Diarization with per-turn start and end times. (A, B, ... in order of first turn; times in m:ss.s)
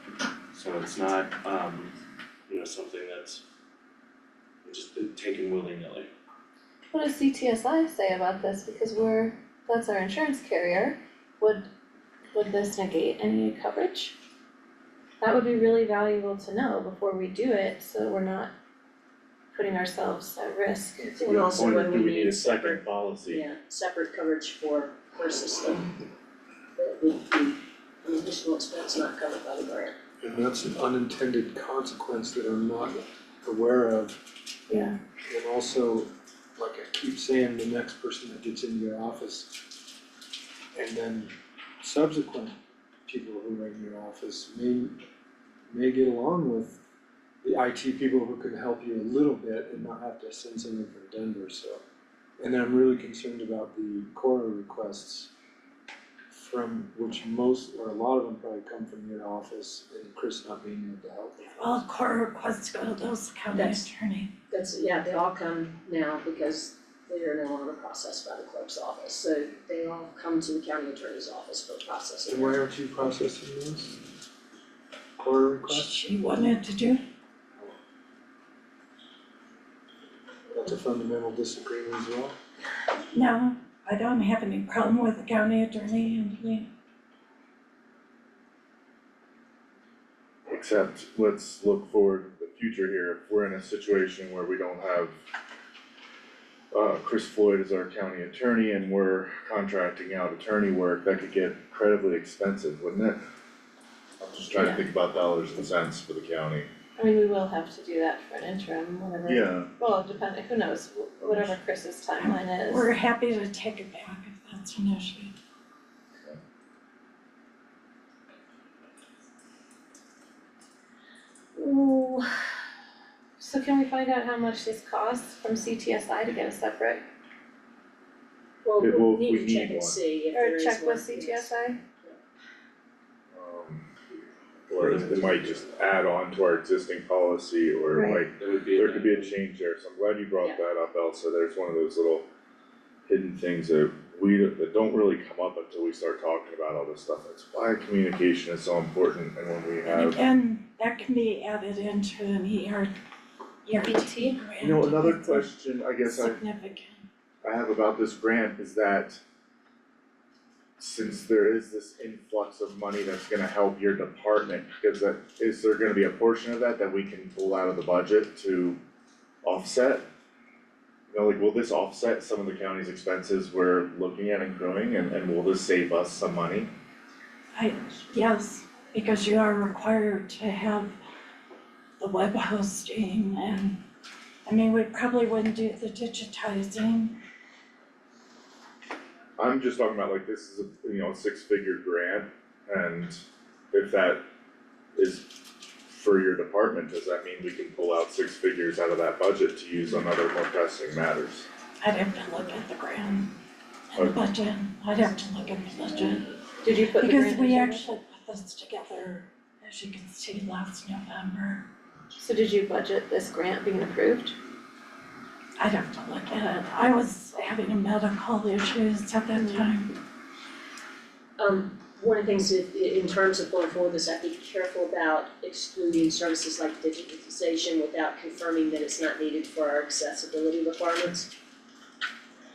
0:00.5-0:01.9 A
0:02.5-0:03.4 A
0:04.6-0:06.1 A
0:06.9-0:11.6 B
0:12.3-0:14.1 B
0:15.2-0:18.5 B
0:19.5-0:21.4 B
0:21.1-0:23.4 C
0:21.2-0:26.0 D
0:26.7-0:30.0 D
0:30.2-0:34.2 E
0:34.7-0:35.0 B
0:35.3-0:39.6 E
0:40.7-0:45.0 E
0:45.7-0:46.8 E
0:47.4-0:51.8 E
0:52.4-0:55.3 E
0:56.3-1:01.4 E
1:01.4-1:04.3 F
1:03.5-1:03.9 D
1:04.5-1:12.6 D
1:12.3-1:14.0 E
1:15.2-1:16.0 E
1:15.6-1:17.0 F
1:20.5-1:22.4 E
1:23.1-1:26.7 F
1:30.5-1:35.1 C
1:36.7-1:43.2 C
1:44.2-1:46.7 C
1:44.6-1:44.8 B
1:47.0-1:52.9 B
1:49.3-1:49.7 C
1:51.2-1:51.5 C
1:52.2-1:55.3 F
2:01.6-2:02.3 D
2:03.4-2:07.0 B
2:08.6-2:11.5 D
2:08.8-2:10.0 C
2:10.3-2:11.8 B
2:13.3-2:13.9 C
2:14.7-2:15.6 A
2:14.7-2:22.3 C
2:17.9-2:18.2 B
2:18.3-2:19.4 A
2:23.1-2:30.2 C
2:29.8-2:32.9 F
2:33.6-2:35.4 F
2:33.8-2:34.4 B
2:34.6-2:36.4 C
2:36.0-2:37.1 F
2:37.4-2:39.2 C
2:40.8-2:48.8 C
2:49.4-2:50.0 C
2:51.1-2:56.7 C
2:57.5-3:01.0 F
3:02.0-3:03.8 F
3:04.4-3:07.2 F
3:09.4-3:14.2 C
3:15.0-3:21.5 C
3:21.8-3:23.3 F
3:23.9-3:31.6 F
3:23.9-3:24.2 C
3:26.6-3:27.9 B
3:32.2-3:34.4 B
3:35.6-3:40.0 F
3:39.3-3:39.7 B
3:41.4-3:51.3 D